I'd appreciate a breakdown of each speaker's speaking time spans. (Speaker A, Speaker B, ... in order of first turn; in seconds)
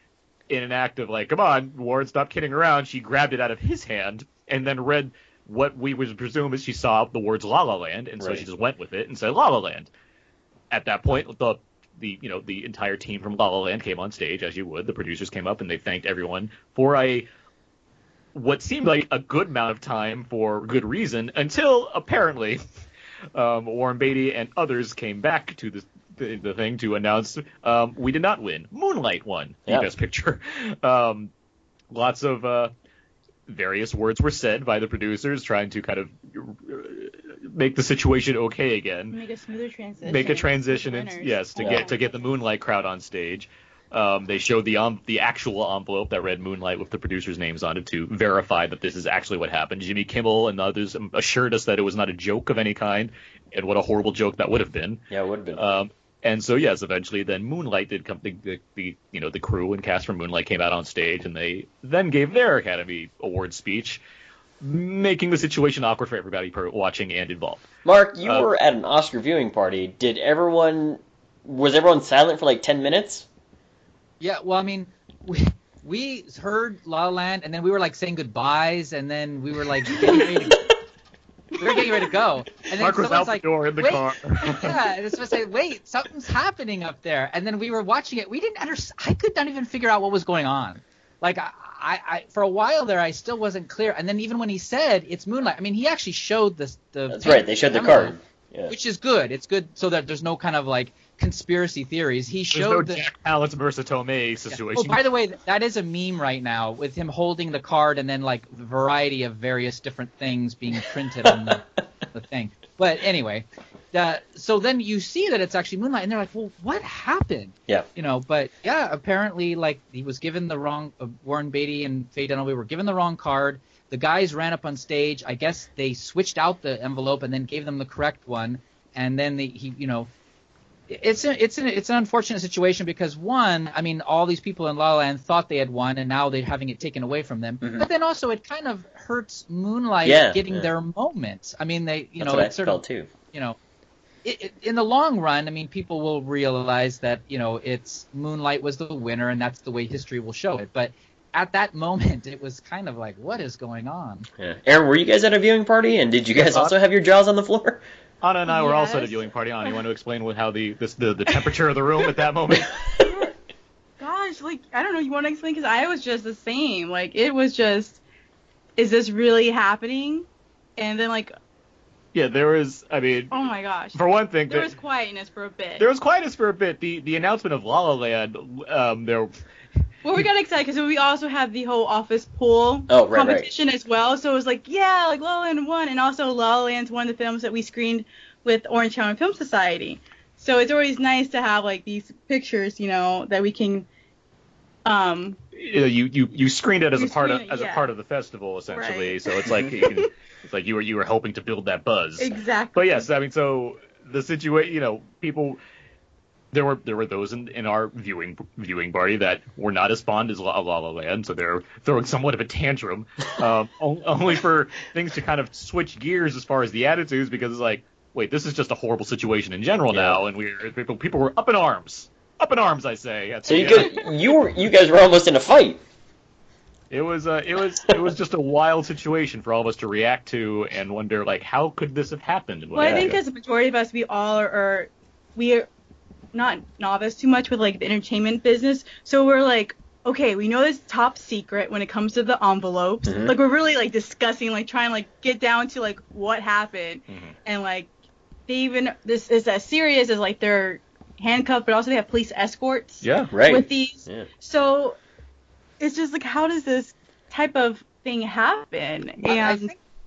Speaker A: 0.5-9.9, 10.7-17.3, 18.3-22.6, 23.3-31.3, 31.9-32.7, 33.5-39.2, 40.0-55.0, 55.6-64.0, 64.6-67.7, 82.8-84.8, 102.5-105.0, 156.4-156.8, 158.2-162.8, 172.1-173.3, 173.9-174.7, 175.8-179.3, 195.5-205.6, 206.5-224.0, 226.9-233.2, 247.1-247.3
Speaker B: 8.2-8.4, 41.6-41.8, 55.1-55.6, 67.8-73.3, 97.1-98.7, 111.2-111.6, 137.6-137.9, 140.0-140.7, 142.2-143.1, 154.4-157.8, 162.7-163.2, 182.9-183.5, 219.9-220.2, 223.5-225.8, 243.0-243.3, 253.1-254.3
Speaker C: 39.1-42.1, 158.5-159.8, 163.0-163.3, 164.0-168.0, 168.8-171.3, 173.3-175.9, 180.0-193.9, 194.8-195.4, 197.0-197.8, 198.7-200.0, 202.2-203.1, 223.6-223.9, 232.8-235.7, 236.3-247.9, 248.5-255.0, 255.8-259.7
Speaker D: 74.2-80.6, 81.6-98.2, 98.7-103.0, 104.5-130.1, 130.9-143.6, 144.2-154.3, 259.2-259.8